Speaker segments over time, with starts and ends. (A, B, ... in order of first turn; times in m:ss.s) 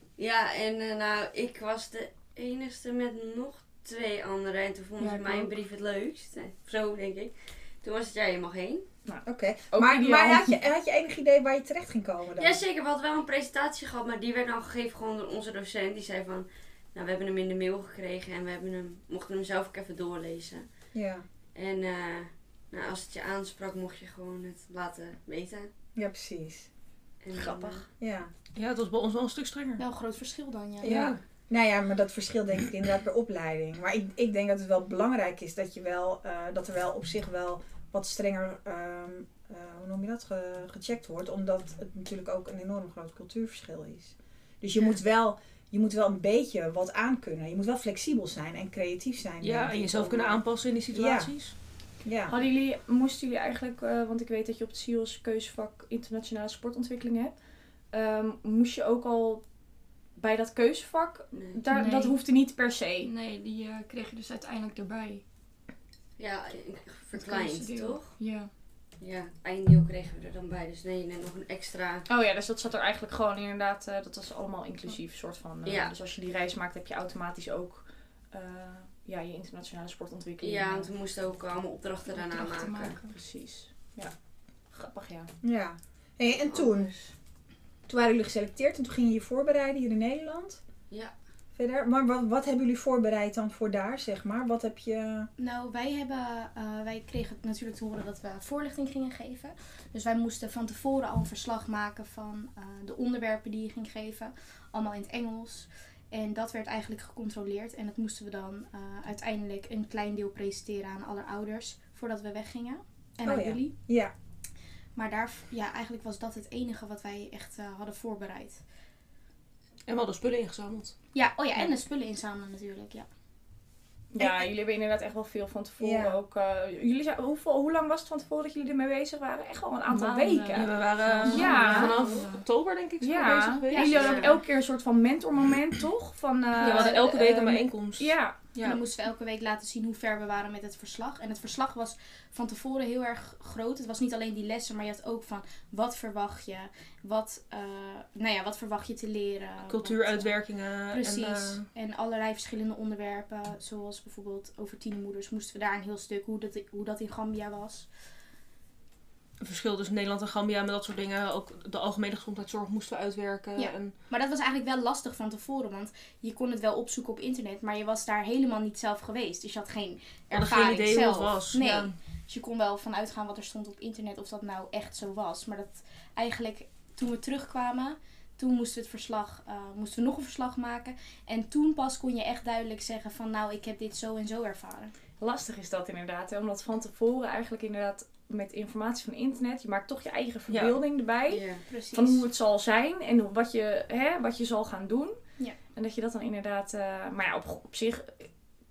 0:00.2-0:08.8 A
0:05.0-0:05.6 B
0:09.0-0:10.6 C
0:09.2-0:12.6 D
0:12.4-0:20.6 A
0:20.9-0:21.2 D
0:21.5-0:25.7 A
0:26.0-0:26.7 D
0:27.2-0:27.9 A
0:27.3-0:27.8 C
0:28.0-0:28.3 D
0:28.5-0:29.8 E
0:29.8-0:30.9 F
0:30.8-0:51.3 D
0:30.8-0:31.2 E
0:49.4-0:51.5 E
0:52.0-0:52.3 D
0:52.3-0:57.4 C
0:57.9-0:59.4 C
1:00.2-1:03.1 C
1:01.3-1:01.6 A
1:01.7-1:02.2 B
1:03.0-1:05.2 B
1:06.2-1:08.2 A
1:07.1-1:08.5 B
1:09.0-1:12.0 A
1:12.1-1:20.9 C
1:15.6-1:15.9 A
1:20.4-1:23.0 A
1:22.1-1:23.1 B
1:23.1-1:24.1 C
1:24.7-1:25.3 C
1:25.4-1:26.9 D
1:26.4-1:27.1 A
1:27.9-1:30.6 D
1:31.5-1:35.3 D
1:35.4-1:53.7 F
1:53.2-1:54.1 D
1:55.0-1:58.6 F
1:59.9-2:00.9 E
2:01.1-2:03.1 F
2:04.1-2:12.0 C
2:05.8-2:06.2 D
2:09.9-2:12.4 B
2:10.5-2:14.2 E
2:11.3-2:12.0 F
2:13.0-2:18.4 C
2:13.7-2:14.3 F
2:13.9-2:14.3 A
2:16.6-2:18.8 E
2:16.6-2:17.0 F
2:18.6-2:30.4 F
2:29.6-2:31.7 E
2:30.9-2:37.9 F
2:39.4-2:43.9 E
2:43.6-3:04.9 F
2:50.3-2:51.9 E
3:05.2-3:15.2 C
3:10.5-3:10.8 E
3:11.3-3:11.6 A
3:11.7-3:12.2 F
3:15.7-3:18.3 C